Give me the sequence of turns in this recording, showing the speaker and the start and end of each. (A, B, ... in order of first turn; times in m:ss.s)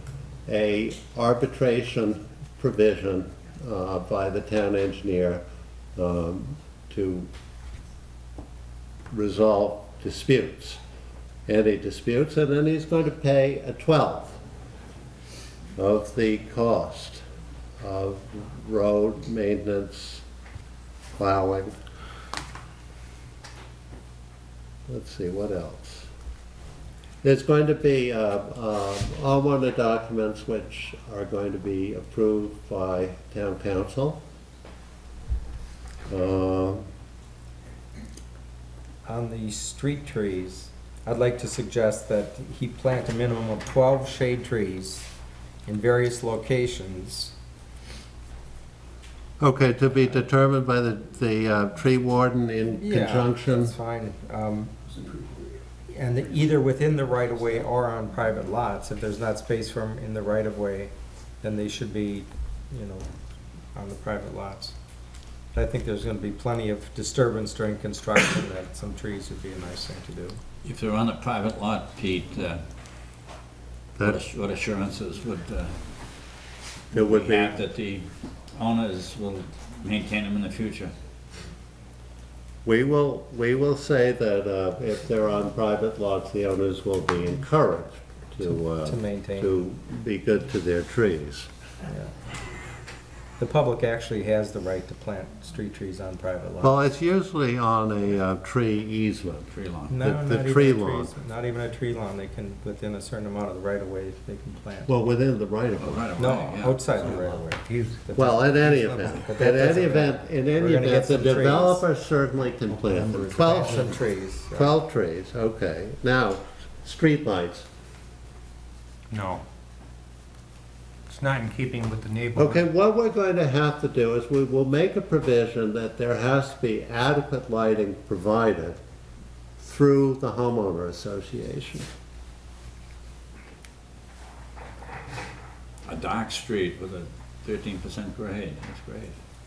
0:00.5-0:05.4 A
0:06.0-0:07.3 A
0:09.1-0:10.8 A
0:11.5-0:14.4 A
0:15.8-0:17.2 A
0:17.8-0:20.2 A
0:21.2-0:21.8 A
0:24.9-0:26.1 A
0:27.2-0:34.2 A
0:36.1-0:36.9 A
0:39.1-0:45.1 B
0:45.7-0:47.3 B
0:49.4-0:53.8 A
0:52.8-1:03.1 B
1:03.7-1:04.8 B
1:05.5-1:10.4 B
1:10.6-1:12.6 C
1:14.0-1:15.8 C
1:16.9-1:17.6 A
1:16.9-1:20.9 C
1:22.6-1:31.5 A
1:28.8-1:29.5 B
1:33.4-1:36.7 B
1:36.6-1:41.1 A
1:39.5-1:40.0 C
1:39.9-1:44.9 B
1:44.9-1:46.3 A
1:45.7-1:47.3 C
1:46.2-1:51.9 B
1:47.1-1:48.0 D
1:48.2-1:54.0 A
1:52.7-1:54.7 B
1:54.5-1:57.7 A
1:59.1-1:59.4 D
2:01.1-2:02.6 D
2:02.4-2:08.8 A
2:09.6-2:11.9 A
2:15.8-2:19.2 C